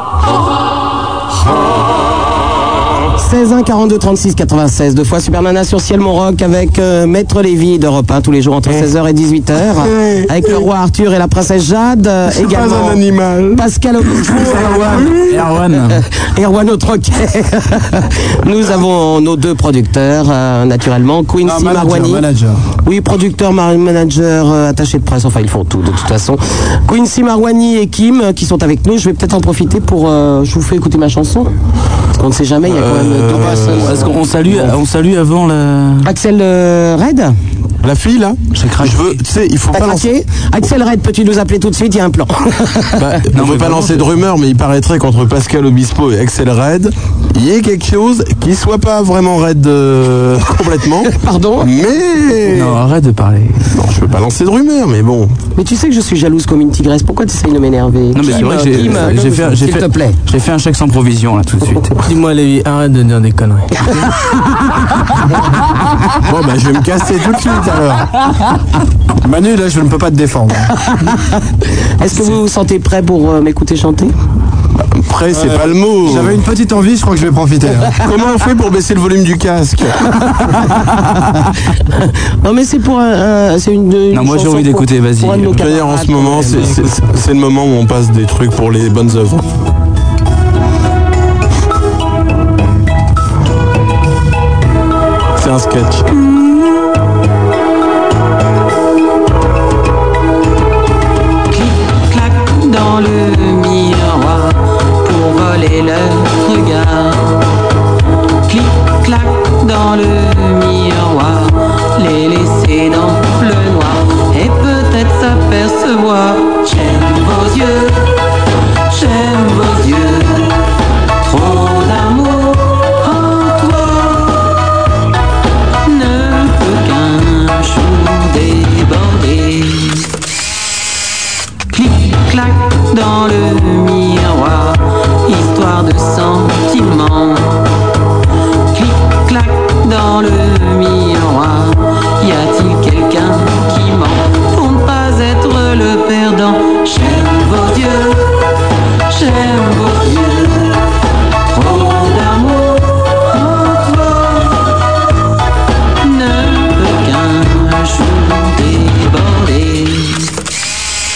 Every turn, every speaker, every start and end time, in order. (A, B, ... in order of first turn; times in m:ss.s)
0:03.2-0:13.0 A
0:09.8-0:10.7 B
0:12.3-0:13.6 B
0:13.6-0:15.2 A
0:14.2-0:15.2 B
0:14.7-0:16.0 C
0:15.9-0:22.3 A
0:21.4-0:22.6 D
0:22.8-0:31.5 A
0:32.2-0:34.1 A
0:32.6-0:34.1 B
0:33.6-0:36.1 C
0:36.0-0:37.3 A
0:37.8-0:40.1 B
0:38.5-0:39.2 C
0:39.7-0:43.2 A
0:43.1-0:44.1 C
0:43.3-0:52.8 B
0:51.1-0:51.7 A
0:52.5-0:53.7 C
0:53.7-0:55.3 B
0:55.6-1:00.2 A
0:58.1-1:02.0 C
1:02.0-1:04.1 E
1:06.2-1:08.1 B
1:09.2-1:10.7 D
1:10.9-1:11.4 A
1:12.0-1:14.1 A
1:14.8-1:16.4 B
1:15.3-1:17.9 D
1:18.0-1:20.0 B
1:21.9-1:26.8 A
1:24.1-1:25.6 C
1:25.5-1:29.4 B
1:35.4-1:36.1 B
1:41.5-1:47.4 F
1:48.5-1:58.1 F
1:58.9-2:00.6 F
2:01.2-2:04.5 F
2:05.8-2:10.1 F
2:11.7-2:17.6 F
2:18.7-2:28.3 F
2:29.1-2:30.8 F
2:31.5-2:34.6 F
2:36.0-2:40.3 F